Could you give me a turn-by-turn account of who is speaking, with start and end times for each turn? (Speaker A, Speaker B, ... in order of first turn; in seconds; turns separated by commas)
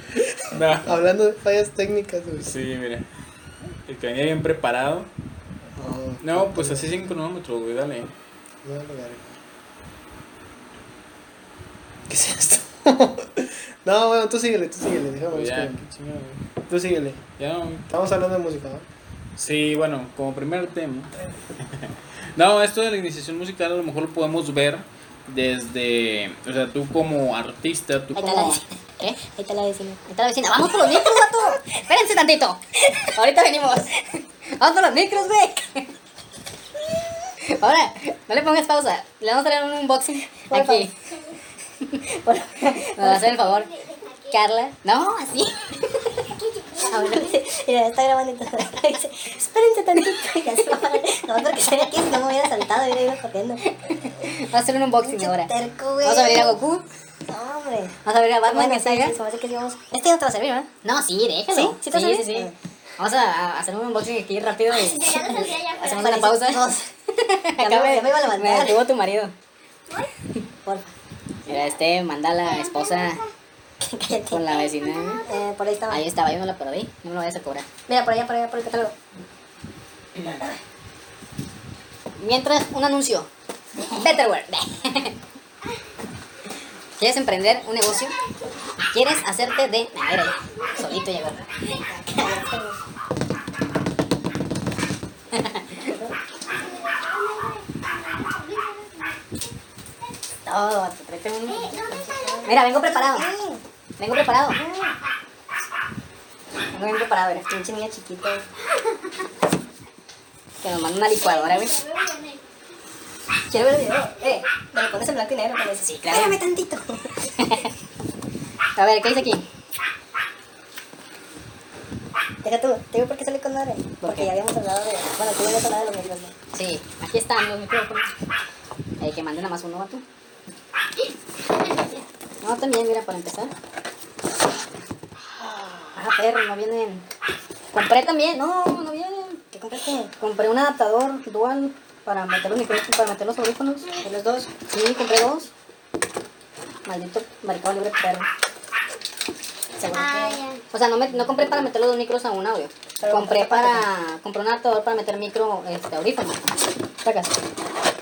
Speaker A: 0.5-0.9, Speaker B: 0.8-2.5, Speaker A: 2.4-3.1, Speaker A: 3.9-5.1, Speaker B: 5.8-6.9, Speaker A: 6.2-8.1, Speaker B: 8.6-9.4, Speaker B: 12.1-15.8, Speaker A: 15.3-16.4, Speaker B: 16.7-17.2, Speaker A: 17.4-17.9, Speaker B: 17.9-18.9, Speaker A: 19.4-28.2, Speaker C: 28.1-28.6, Speaker D: 28.2-29.2, Speaker C: 29.2-30.0, Speaker D: 30.1-35.9, Speaker C: 30.6-31.3, Speaker D: 37.4-40.9, Speaker C: 40.5-40.9, Speaker C: 42.1-43.5, Speaker D: 43.0-43.7, Speaker D: 44.3-45.7, Speaker C: 46.8-53.6, Speaker D: 46.9-47.3, Speaker D: 53.9-55.5, Speaker C: 55.0-56.6, Speaker D: 56.0-56.9, Speaker C: 57.3-58.0, Speaker D: 58.1-59.1, Speaker C: 58.5-60.7, Speaker D: 60.8-69.3, Speaker C: 61.5-62.5, Speaker C: 65.1-66.9, Speaker C: 67.6-68.8, Speaker C: 70.7-70.9, Speaker D: 71.5-73.2, Speaker C: 73.8-74.6, Speaker D: 74.3-75.2, Speaker C: 75.2-76.0, Speaker D: 75.9-77.7, Speaker C: 77.9-79.0, Speaker D: 82.2-83.3, Speaker D: 83.9-85.2, Speaker D: 87.0-88.1, Speaker D: 88.9-91.5, Speaker C: 91.8-92.8, Speaker D: 95.3-95.9, Speaker D: 100.5-101.8, Speaker C: 101.7-103.6, Speaker D: 102.5-103.3, Speaker D: 104.0-104.6, Speaker C: 104.5-105.0, Speaker D: 106.7-107.5, Speaker C: 107.5-108.5, Speaker D: 110.6-111.9, Speaker C: 113.5-117.6, Speaker D: 115.8-116.4, Speaker D: 117.4-117.7, Speaker D: 118.8-119.5, Speaker C: 122.4-126.3, Speaker D: 124.0-124.3, Speaker D: 126.5-128.1, Speaker D: 129.0-130.0, Speaker D: 132.4-133.5, Speaker C: 135.4-136.0, Speaker D: 135.9-137.0, Speaker D: 137.7-139.4, Speaker C: 139.5-140.1, Speaker D: 140.2-145.5, Speaker C: 144.0-144.5, Speaker D: 146.9-148.3, Speaker C: 149.8-150.4, Speaker D: 150.3-156.5, Speaker C: 153.0-153.9, Speaker D: 157.0-157.3